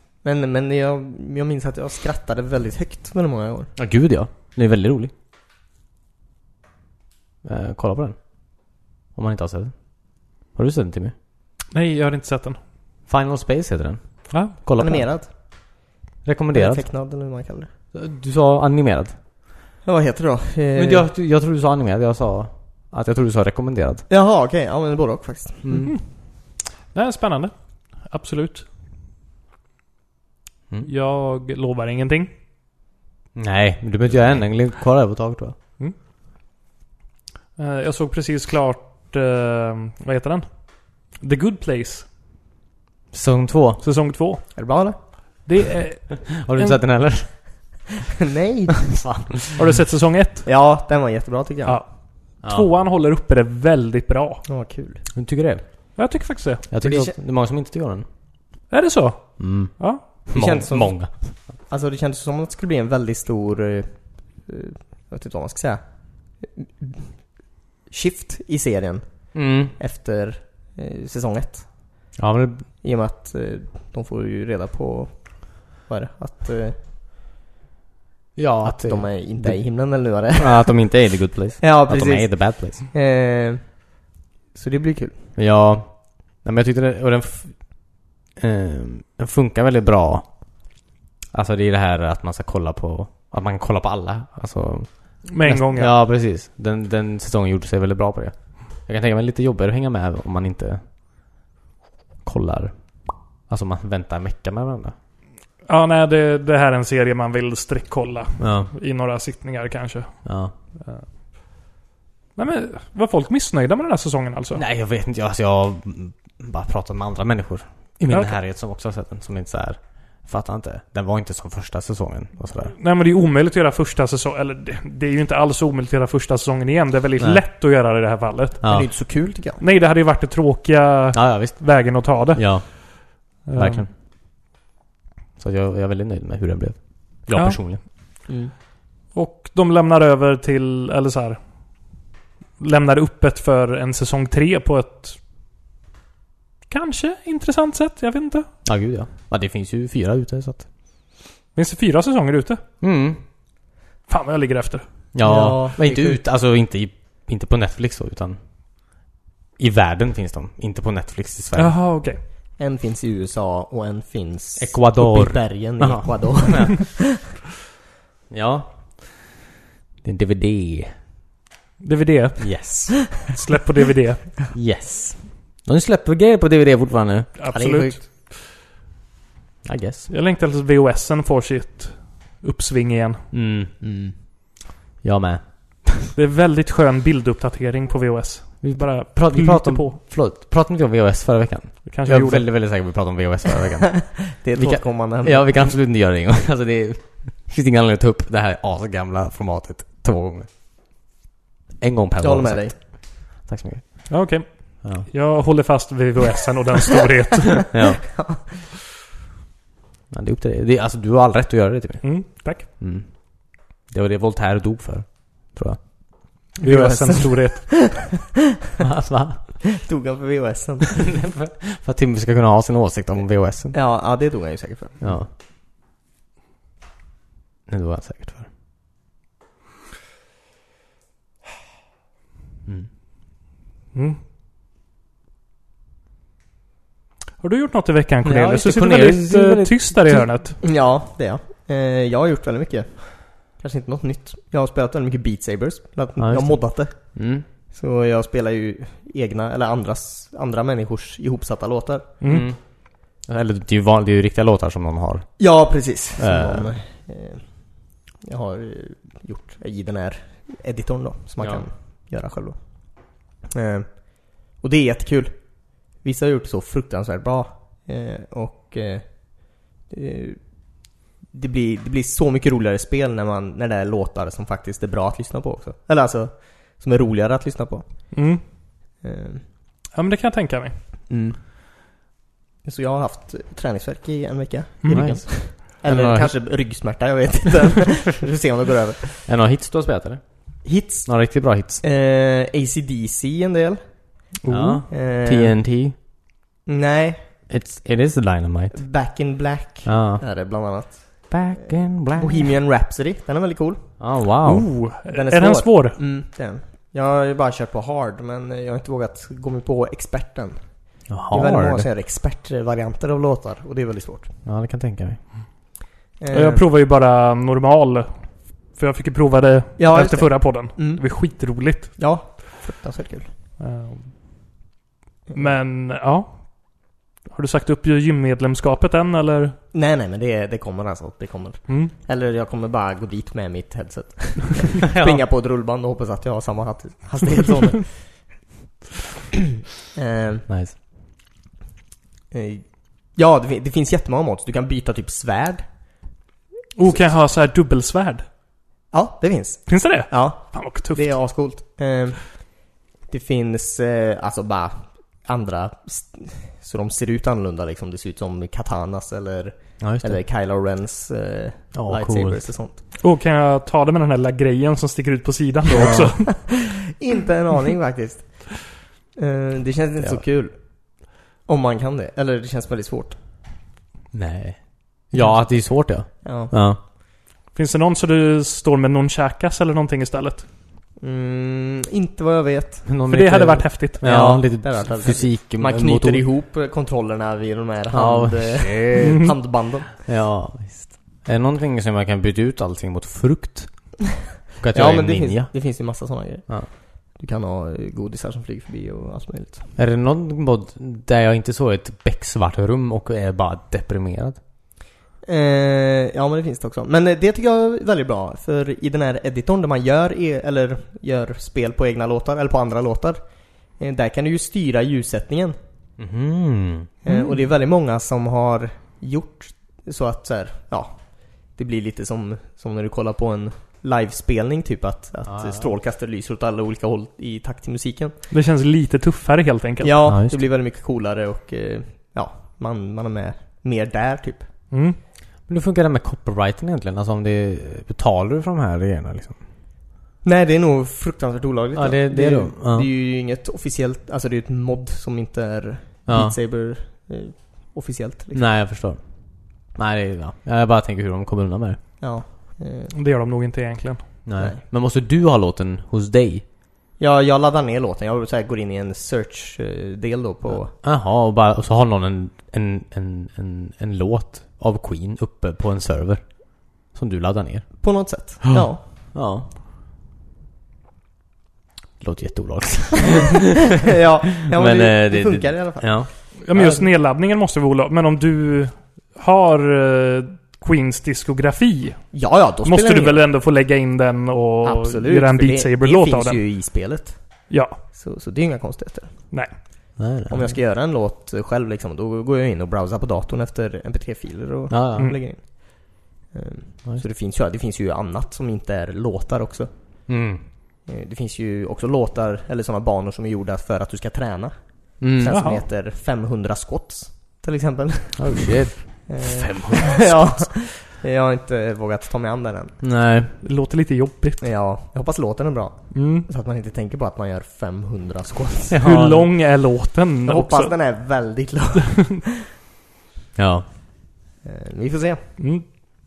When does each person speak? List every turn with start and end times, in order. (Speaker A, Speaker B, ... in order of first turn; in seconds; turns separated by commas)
Speaker A: 0.2-3.7, Speaker B: 3.8-5.1, Speaker B: 7.4-11.1, Speaker C: 11.7-12.6, Speaker B: 13.1-15.4, Speaker C: 14.3-14.6, Speaker A: 14.8-15.9, Speaker B: 16.2-16.9, Speaker A: 16.5-17.7, Speaker B: 17.9-19.1, Speaker A: 19.8-21.1, Speaker B: 20.8-24.0, Speaker A: 24.1-25.9, Speaker B: 25.6-26.0, Speaker C: 25.7-28.7, Speaker C: 30.9-32.3, Speaker B: 33.4-35.6, Speaker C: 37.6-42.1, Speaker B: 43.1-43.8, Speaker C: 43.8-47.3, Speaker A: 44.5-45.0, Speaker B: 46.2-47.9, Speaker A: 48.2-49.0, Speaker B: 48.9-49.6, Speaker C: 49.5-50.5, Speaker A: 50.5-51.8, Speaker C: 51.7-54.5, Speaker B: 52.4-52.7, Speaker A: 54.5-55.0, Speaker B: 55.1-56.0, Speaker C: 56.0-56.8, Speaker B: 56.7-58.1, Speaker A: 56.8-57.1, Speaker C: 58.7-60.1, Speaker B: 59.4-61.4, Speaker A: 60.3-72.0, Speaker B: 69.3-69.7, Speaker B: 72.2-72.7, Speaker A: 72.8-76.8, Speaker B: 78.4-82.8, Speaker A: 78.6-80.8, Speaker A: 81.6-84.0, Speaker A: 84.5-85.2, Speaker B: 85.4-90.8, Speaker B: 91.3-100.8, Speaker C: 95.2-95.9, Speaker B: 102.2-105.0, Speaker C: 105.7-111.1, Speaker B: 108.4-108.7, Speaker B: 110.2-110.5, Speaker C: 112.4-114.6, Speaker B: 114.5-122.8, Speaker C: 118.1-118.4, Speaker C: 122.8-133.9, Speaker B: 127.2-127.4, Speaker B: 128.6-128.9, Speaker A: 128.7-129.6, Speaker B: 131.1-133.9, Speaker B: 135.4-137.8, Speaker C: 137.3-137.6, Speaker A: 138.3-138.5, Speaker C: 139.1-142.0, Speaker C: 142.6-145.2, Speaker C: 146.7-148.5, Speaker B: 148.7-150.7, Speaker C: 151.6-152.6, Speaker B: 152.8-153.2, Speaker C: 154.1-154.8, Speaker B: 155.1-158.4, Speaker A: 155.2-156.2, Speaker B: 159.6-161.8, Speaker C: 161.6-162.2, Speaker A: 162.6-167.2, Speaker B: 164.6-166.8, Speaker B: 168.3-169.4, Speaker B: 170.0-171.0, Speaker C: 171.8-174.5, Speaker B: 172.4-173.1, Speaker B: 174.5-177.3, Speaker C: 177.4-178.3, Speaker A: 177.5-178.0, Speaker B: 179.6-180.1, Speaker C: 180.1-183.3, Speaker B: 183.3-183.7, Speaker A: 183.8-184.2, Speaker B: 185.0-186.1, Speaker C: 186.1-190.0, Speaker B: 188.6-200.5, Speaker C: 191.9-192.4, Speaker A: 193.9-195.7, Speaker B: 201.8-204.3, Speaker A: 202.2-202.8, Speaker C: 204.1-207.8, Speaker B: 204.8-205.1, Speaker B: 207.7-208.1, Speaker A: 208.1-208.5, Speaker B: 210.1-215.8, Speaker C: 212.0-212.7, Speaker C: 216.6-218.1, Speaker A: 216.6-218.1, Speaker B: 218.8-219.6, Speaker A: 219.7-221.1, Speaker B: 221.0-223.8, Speaker A: 223.7-225.1, Speaker B: 225.0-225.3, Speaker B: 227.7-228.5, Speaker C: 233.9-234.2, Speaker C: 237.4-240.6, Speaker B: 238.2-240.3, Speaker A: 240.6-252.1, Speaker B: 246.2-247.5, Speaker C: 252.2-252.5, Speaker B: 252.2-252.7, Speaker B: 253.2-255.6, Speaker A: 255.4-279.5, Speaker B: 256.2-256.7, Speaker B: 261.4-261.6, Speaker C: 278.1-278.4, Speaker C: 279.9-280.8, Speaker A: 281.1-281.4, Speaker A: 282.6-289.3, Speaker C: 284.8-285.2, Speaker B: 284.9-286.4, Speaker B: 289.3-291.8, Speaker A: 290.6-294.3, Speaker C: 294.4-294.9, Speaker B: 294.5-295.9, Speaker A: 294.9-295.6, Speaker A: 296.7-297.3, Speaker B: 297.5-298.8, Speaker A: 298.7-304.0, Speaker B: 299.9-300.2, Speaker B: 301.3-302.5, Speaker B: 304.0-304.7, Speaker C: 304.4-306.0, Speaker A: 305.1-314.3, Speaker B: 311.1-311.9, Speaker B: 314.4-315.3, Speaker A: 316.2-316.7, Speaker C: 316.3-322.4, Speaker A: 319.8-323.3, Speaker C: 323.6-324.2, Speaker A: 325.3-325.6, Speaker C: 325.3-329.6, Speaker A: 329.7-338.4, Speaker C: 331.7-331.9, Speaker B: 334.9-335.2, Speaker A: 339.9-340.5, Speaker B: 340.5-340.8, Speaker A: 342.3-346.1, Speaker C: 346.8-348.3, Speaker A: 348.9-362.8, Speaker C: 349.7-351.4, Speaker B: 359.8-360.2, Speaker B: 361.7-362.5, Speaker C: 363.0-366.7, Speaker B: 365.7-366.2, Speaker A: 366.3-373.2, Speaker B: 374.1-376.8, Speaker A: 376.2-376.5, Speaker C: 377.5-380.5, Speaker A: 381.0-382.9, Speaker B: 382.9-386.2, Speaker C: 383.1-384.2, Speaker A: 384.0-389.9, Speaker B: 387.9-389.4, Speaker C: 389.0-389.3, Speaker B: 389.9-394.0, Speaker B: 394.6-395.6, Speaker A: 394.7-399.7, Speaker B: 399.8-404.4, Speaker A: 405.2-415.6, Speaker B: 416.0-416.9, Speaker A: 417.0-428.2, Speaker C: 417.1-417.3, Speaker B: 425.3-425.7, Speaker C: 428.3-430.0, Speaker A: 429.8-434.5, Speaker B: 430.1-430.4, Speaker C: 434.7-435.0, Speaker B: 435.5-439.4, Speaker A: 440.2-448.5, Speaker B: 441.8-442.9, Speaker B: 446.1-446.4, Speaker B: 448.3-451.8, Speaker A: 452.0-452.9, Speaker C: 452.9-454.2, Speaker B: 454.2-456.4, Speaker A: 457.0-460.7, Speaker B: 460.5-469.5, Speaker A: 467.8-468.8, Speaker B: 472.0-473.6, Speaker A: 473.9-476.0, Speaker B: 474.5-476.9, Speaker C: 476.4-486.4, Speaker A: 482.1-483.2, Speaker A: 484.6-489.6, Speaker C: 487.5-487.8, Speaker C: 489.3-489.6, Speaker B: 490.0-490.6, Speaker A: 490.3-500.1, Speaker B: 494.7-495.1, Speaker B: 500.1-500.4, Speaker A: 500.9-512.8, Speaker B: 505.0-505.4, Speaker C: 505.3-505.6, Speaker B: 508.2-510.5, Speaker B: 512.8-513.3, Speaker C: 513.4-514.4, Speaker A: 514.4-518.9, Speaker C: 515.9-516.3, Speaker B: 518.7-519.3, Speaker C: 518.8-520.8, Speaker A: 520.3-522.3, Speaker B: 523.4-523.7, Speaker A: 524.4-525.2, Speaker C: 525.4-525.6